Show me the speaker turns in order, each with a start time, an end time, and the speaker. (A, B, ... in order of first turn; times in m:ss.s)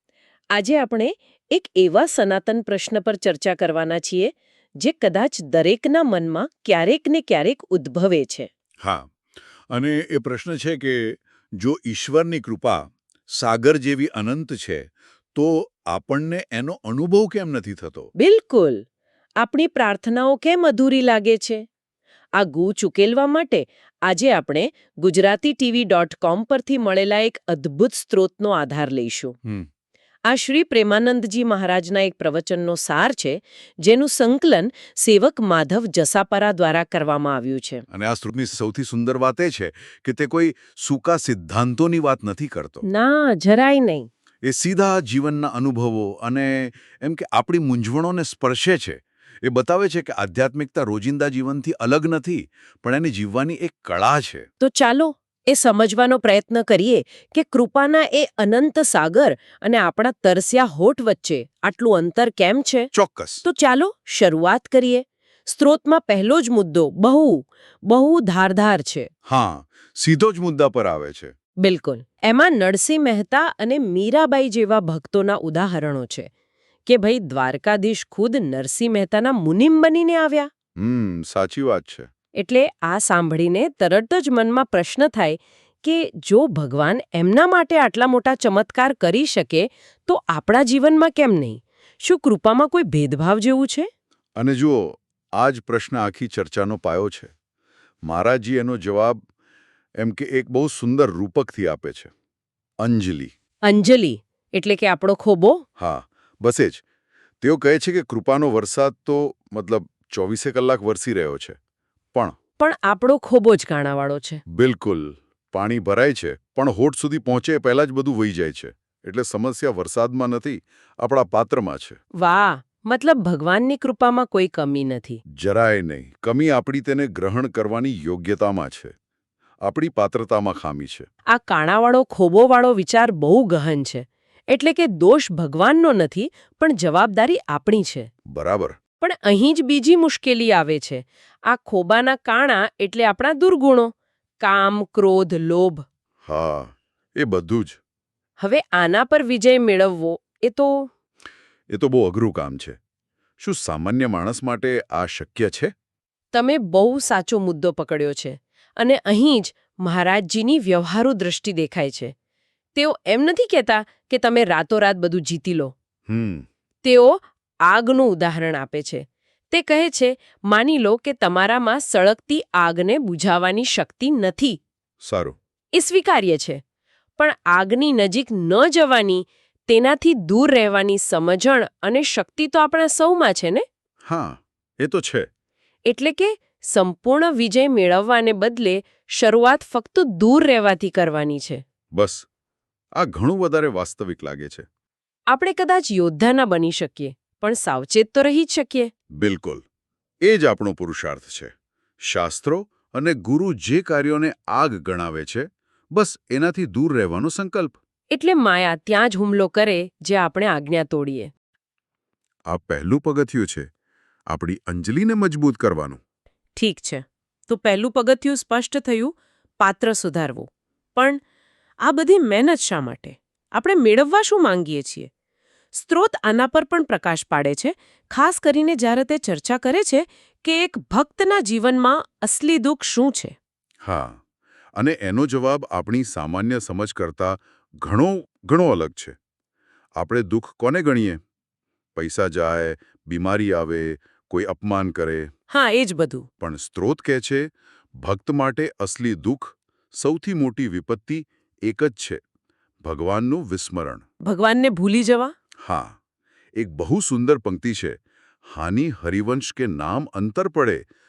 0:00.5-0:08.5 A
0:08.8-0:09.1 B
0:09.7-0:18.1 B
0:18.2-0:18.8 A
0:19.4-0:21.6 A
0:22.4-0:29.4 A
0:30.2-0:37.8 A
0:37.9-0:42.8 B
0:42.8-0:44.1 A
0:44.4-0:54.5 B
0:54.6-1:02.9 A
1:02.9-1:03.4 B
1:03.4-1:09.1 A
1:09.2-1:11.3 B
1:11.6-1:16.3 A
1:16.8-1:20.5 A
1:20.8-1:22.1 B
1:22.4-1:33.9 A
1:34.4-1:37.3 B
1:38.0-1:39.2 B
1:40.0-1:42.1 B
1:42.8-1:43.3 B
1:43.7-1:45.6 A
1:45.8-1:46.8 B
1:47.4-1:51.6 B
1:52.6-1:54.4 A
1:54.5-2:02.0 B
2:02.2-2:05.2 A
2:05.3-2:08.9 B
2:09.6-2:11.1 B
2:11.3-2:18.1 A
2:18.3-2:18.8 B
2:19.0-2:25.8 A
2:26.2-2:27.8 B
2:28.4-2:30.9 A
2:31.7-2:32.8 B
2:33.4-2:35.7 B
2:36.3-2:42.1 A
2:42.7-2:45.7 A
2:46.1-2:46.4 B
2:46.8-2:54.6 A
2:55.0-2:55.4 B
2:55.7-2:56.6 A
2:57.2-3:03.6 A
3:04.0-3:05.3 B
3:05.8-3:11.6 A
3:11.9-3:12.2 B
3:13.0-3:14.7 B
3:15.3-3:18.9 A
3:19.2-3:19.6 B
3:20.2-3:21.5 B
3:22.0-3:27.7 B
3:28.1-3:31.3 A
3:32.5-3:33.7 B
3:34.3-3:36.0 B
3:36.6-3:41.2 A
3:41.8-3:45.1 A
3:45.7-3:53.3 A
3:53.8-3:54.2 B
3:54.7-3:59.2 B
4:00.0-4:01.2 B
4:02.0-4:05.3 B
4:05.5-4:06.3 A
4:06.4-4:12.2 B
4:12.8-4:14.0 B
4:14.2-4:15.3 A
4:15.6-4:16.0 B
4:16.6-4:20.8 B